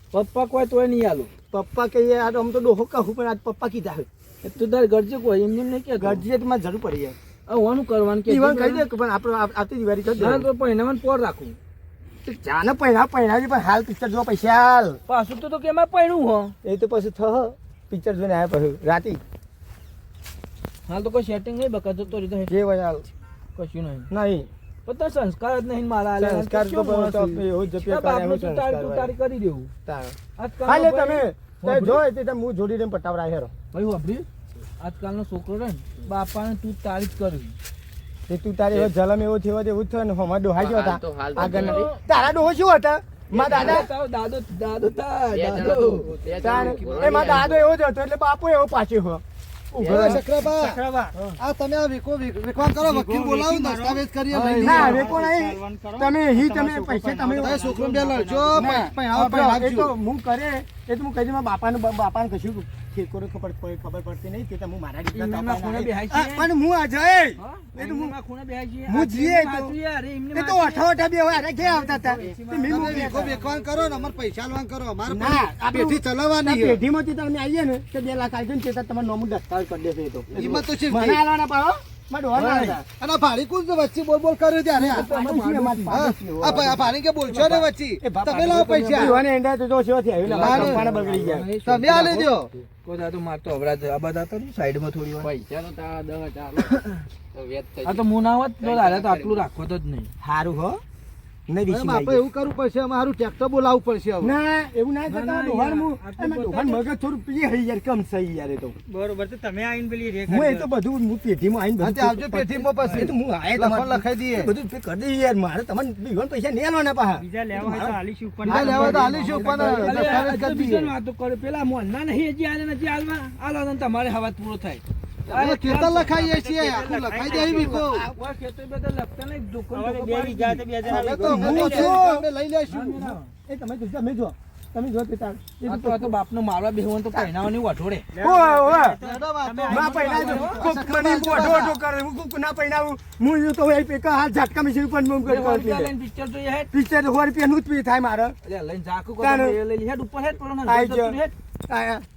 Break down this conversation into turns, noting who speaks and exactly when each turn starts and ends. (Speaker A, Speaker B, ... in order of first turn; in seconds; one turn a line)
Speaker A: 0.1-1.3
Speaker B: 1.5-4.1
Speaker A: 4.4-6.2
Speaker B: 6.0-7.2
Speaker A: 7.5-8.9
Speaker B: 8.3-10.5
Speaker A: 10.2-11.6
Speaker B: 12.2-15.0
Speaker A: 15.1-16.5
Speaker B: 16.6-19.2
Speaker A: 20.9-22.5
Speaker B: 22.5-23.1
Speaker A: 23.6-24.1
Speaker B: 24.1-24.5
Speaker A: 24.9-29.7
Speaker B: 26.2-29.1
Speaker B: 29.9-33.5
Speaker A: 30.4-32.0
Speaker A: 33.7-34.3
Speaker A: 34.8-37.6
Speaker B: 38.3-43.9
Speaker C: 40.6-41.9
Speaker A: 41.4-42.0
Speaker A: 43.4-46.1
Speaker C: 45.3-47.8
Speaker D: 46.4-47.3
Speaker B: 46.4-49.2
Speaker C: 49.8-50.2
Speaker D: 49.8-50.8
Speaker E: 49.9-51.2
Speaker D: 51.4-55.1
Speaker E: 52.8-54.0
Speaker A: 54.3-55.1
Speaker B: 54.6-57.7
Speaker E: 54.9-58.9
Speaker D: 57.4-59.9
Speaker B: 58.5-68.2
Speaker A: 65.1-66.5
Speaker A: 67.4-70.9
Speaker B: 68.9-69.8
Speaker B: 70.3-73.4
Speaker E: 71.6-74.2
Speaker D: 72.7-76.8
Speaker B: 75.1-82.8
Speaker C: 80.3-80.6
Speaker D: 80.3-81.2
Speaker A: 82.3-82.8
Speaker D: 83.0-85.1
Speaker B: 84.8-87.4
Speaker A: 84.8-86.8
Speaker D: 85.9-89.2
Speaker A: 87.3-87.6
Speaker B: 88.0-91.5
Speaker A: 88.4-89.0
Speaker A: 90.2-95.3
Speaker D: 90.4-90.8
Speaker D: 91.7-92.5
Speaker C: 95.2-96.7
Speaker A: 96.7-97.1
Speaker C: 97.3-98.1
Speaker A: 97.8-100.1
Speaker C: 98.6-99.5
Speaker B: 100.2-100.8
Speaker B: 101.5-102.2
Speaker D: 101.7-104.4
Speaker B: 104.2-108.8
Speaker A: 105.1-106.9
Speaker E: 108.9-110.7
Speaker B: 110.3-118.0
Speaker D: 111.8-114.5
Speaker E: 117.2-119.1
Speaker A: 118.5-130.7
Speaker D: 118.5-120.9
Speaker B: 119.4-119.9
Speaker D: 125.3-128.1
Speaker E: 126.7-127.8
Speaker B: 127.7-128.2
Speaker E: 129.7-131.5
Speaker B: 130.9-132.3
Speaker D: 130.9-133.2
Speaker A: 132.7-133.3
Speaker B: 133.5-136.1
Speaker A: 135.7-138.1
Speaker E: 138.1-140.7
Speaker B: 138.2-139.0
Speaker D: 139.0-141.8
Speaker A: 139.7-140.7
Speaker B: 139.7-145.9
Speaker A: 145.3-146.7
Speaker B: 146.7-148.3
Speaker A: 148.4-151.3
Speaker B: 149.2-149.6
Speaker B: 150.7-151.2
Speaker B: 151.7-152.1